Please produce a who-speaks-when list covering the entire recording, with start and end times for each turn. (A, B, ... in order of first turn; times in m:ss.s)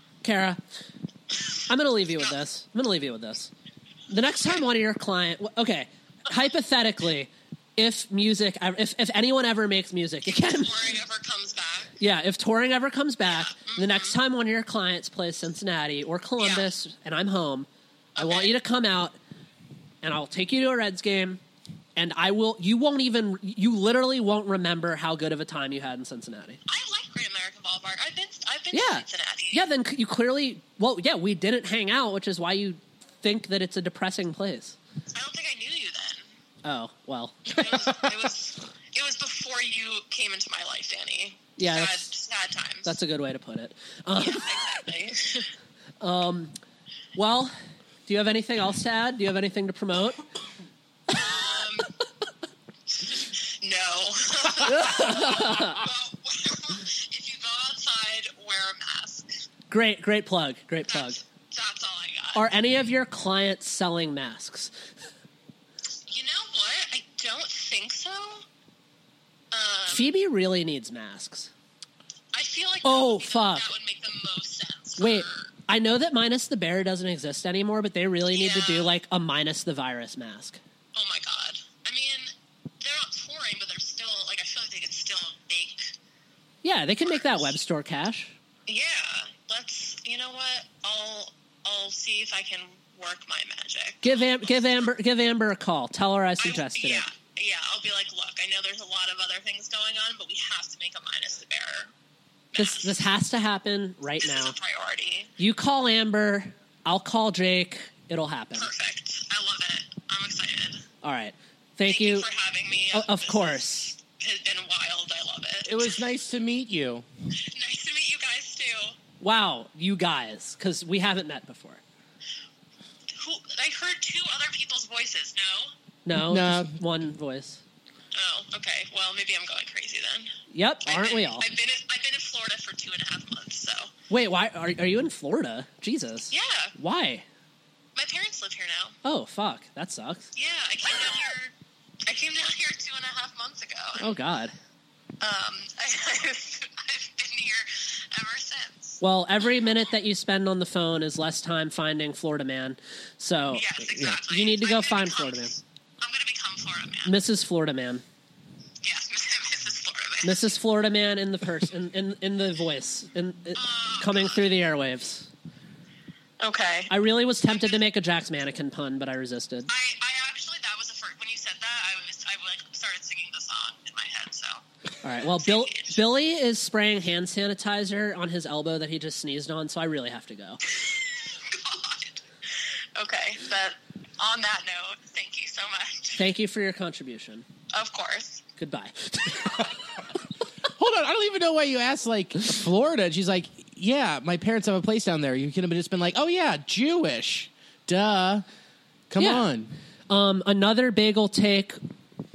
0:00.2-0:00.6 A
0:01.7-0:03.5 A
0:04.1-0:10.9 A
0:04.4-0:04.6 B
0:10.2-0:11.9 B
0:12.0-0:19.1 A
0:13.2-0:14.2 B
0:16.4-0:16.7 B
0:18.2-0:18.5 B
0:20.0-0:21.4 A
0:22.0-0:26.6 A
0:26.7-0:29.7 B
0:28.7-0:34.8 A
0:35.1-0:36.3 B
0:36.6-0:37.6 A
0:37.5-0:42.9 B
0:41.6-0:42.1 A
0:42.8-0:44.5 A
0:44.1-0:45.5 B
0:46.0-0:46.5 A
0:47.2-0:47.5 A
0:48.1-0:50.2 A
0:51.1-0:51.9 B
0:53.0-0:59.3 B
0:54.6-0:55.8 A
0:59.7-1:01.2 A
1:00.9-1:02.5 B
1:02.3-1:04.7 A
1:06.1-1:08.4 B
1:09.5-1:10.1 B
1:09.9-1:11.5 A
1:12.3-1:15.5 B
1:12.8-1:13.7 A
1:15.0-1:20.6 A
1:18.3-1:18.9 B
1:20.9-1:25.9 B
1:26.6-1:28.3 A
1:27.0-1:27.5 B
1:28.7-1:34.9 B
1:34.0-1:37.0 A
1:36.4-1:41.9 B
1:42.5-1:43.1 B
1:42.6-1:44.5 A
1:44.2-1:45.3 B
1:45.4-1:48.7 A
1:48.5-1:50.8 B
1:51.0-1:52.3 A
1:51.8-1:56.0 B
1:52.9-1:53.9 A
1:55.6-1:57.1 C
1:57.5-1:59.0 B
1:59.2-2:01.8 A
2:03.1-2:05.7 B
2:06.0-2:07.6 A
2:06.1-2:06.8 C
2:08.1-2:10.3 B
2:10.5-2:11.4 A
2:10.8-2:13.9 B
2:14.1-2:17.2 A
2:16.3-2:16.7 B
2:18.0-2:18.9 B
2:19.0-2:20.3 A
2:20.3-2:21.5 B
2:22.1-2:24.0 B
2:24.0-2:24.5 A
2:25.2-2:29.0 B
2:29.0-2:35.5 A
2:33.5-2:37.2 B
2:37.0-2:38.0 A
2:38.8-2:40.6 B
2:40.2-2:45.3 A
2:43.5-2:44.5 B
2:46.4-2:46.9 B
2:46.9-2:49.7 A
2:47.5-2:47.8 B
2:49.7-2:54.6 B
2:55.0-3:00.6 A
2:55.2-2:56.0 B
3:00.7-3:06.3 B
3:06.1-3:07.4 A
3:07.7-3:08.4 B
3:08.6-3:09.6 A
3:10.8-3:18.4 C
3:19.1-3:19.7 C
3:19.2-3:19.5 A
3:20.1-3:21.8 A